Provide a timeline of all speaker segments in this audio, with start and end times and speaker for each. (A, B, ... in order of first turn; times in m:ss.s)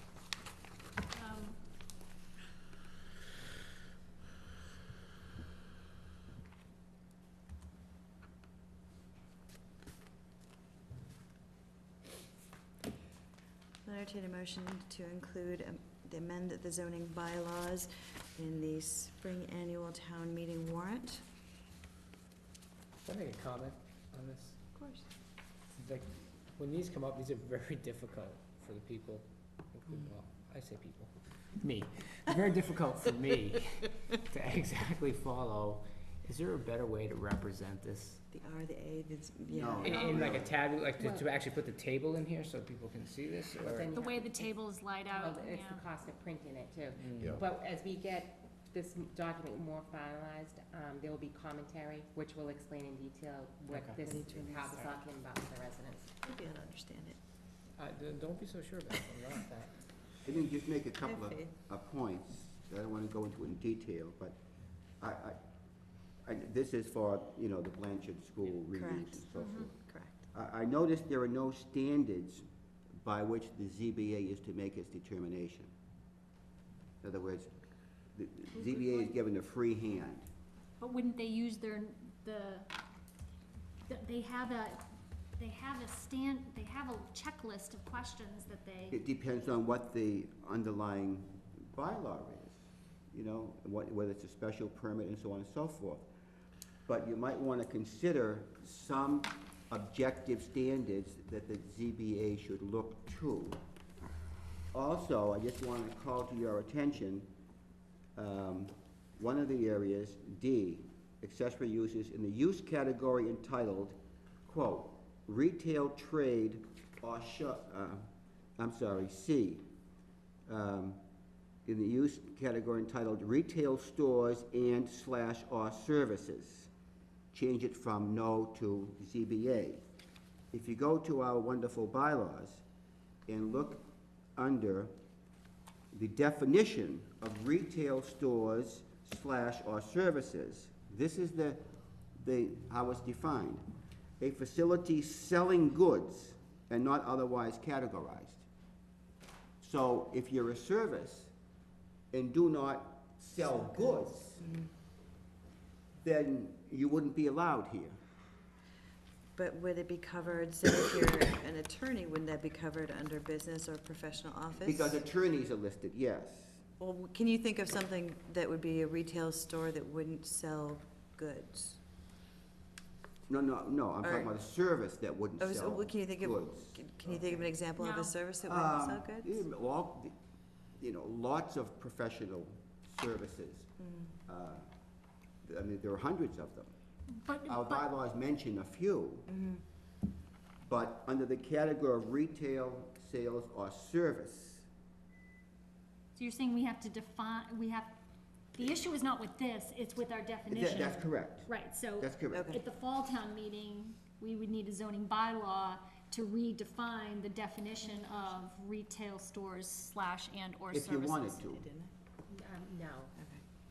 0:01.1-0:01.6 A
0:13.8-0:21.2 B
0:23.0-0:24.6 C
0:24.7-0:25.1 B
0:25.6-0:38.2 C
0:38.3-0:40.2 B
0:39.6-0:40.6 D
0:39.8-0:43.9 C
0:41.0-0:41.3 E
0:43.6-0:56.1 E
0:43.9-0:45.9 A
0:46.9-0:47.4 C
0:53.7-0:54.2 C
0:54.0-0:54.9 B
0:56.2-0:57.2 B
0:57.8-1:00.1 C
1:00.2-1:04.4 D
1:01.0-1:01.5 B
1:05.0-1:05.4 D
1:06.3-1:09.8 D
1:08.8-1:09.2 B
1:09.3-1:09.7 A
1:09.8-1:10.2 B
1:10.3-1:12.4 D
1:13.0-1:15.7 D
1:17.0-1:17.5 D
1:18.1-1:20.3 D
1:18.5-1:19.1 A
1:20.8-1:22.7 A
1:23.9-1:24.8 A
1:25.4-1:29.0 A
1:28.9-1:32.6 D
1:33.1-1:36.1 D
1:36.9-1:43.6 D
1:44.7-1:47.3 D
1:48.2-1:58.0 D
1:58.6-1:59.6 D
2:00.5-2:01.0 D
2:01.6-2:06.7 D
2:07.3-2:09.8 D
2:10.5-2:12.6 D
2:13.3-2:13.8 D
2:14.4-2:14.9 D
2:15.9-2:21.6 D
2:22.2-2:23.6 D
2:24.2-2:28.4 D
2:29.6-2:31.3 D
2:32.1-2:34.4 D
2:34.4-2:34.7 B
2:36.0-2:38.0 D
2:39.4-2:45.0 B
2:44.6-2:46.6 D
2:46.8-2:51.8 B
2:53.3-2:57.5 D
2:54.0-2:54.3 B
2:55.4-2:59.4 B
2:57.8-2:58.1 A
2:58.4-3:00.2 D
3:00.8-3:03.7 D
3:04.3-3:04.6 D
3:05.4-3:06.7 D
3:07.2-3:07.9 A
3:07.5-3:09.3 D
3:09.3-3:09.6 B
3:10.6-3:14.7 D
3:16.2-3:18.0 A
3:18.5-3:31.5 A
3:20.5-3:22.5 D
3:22.3-3:22.6 B
3:30.7-3:31.7 D
3:31.6-3:31.9 B
3:32.3-3:33.1 E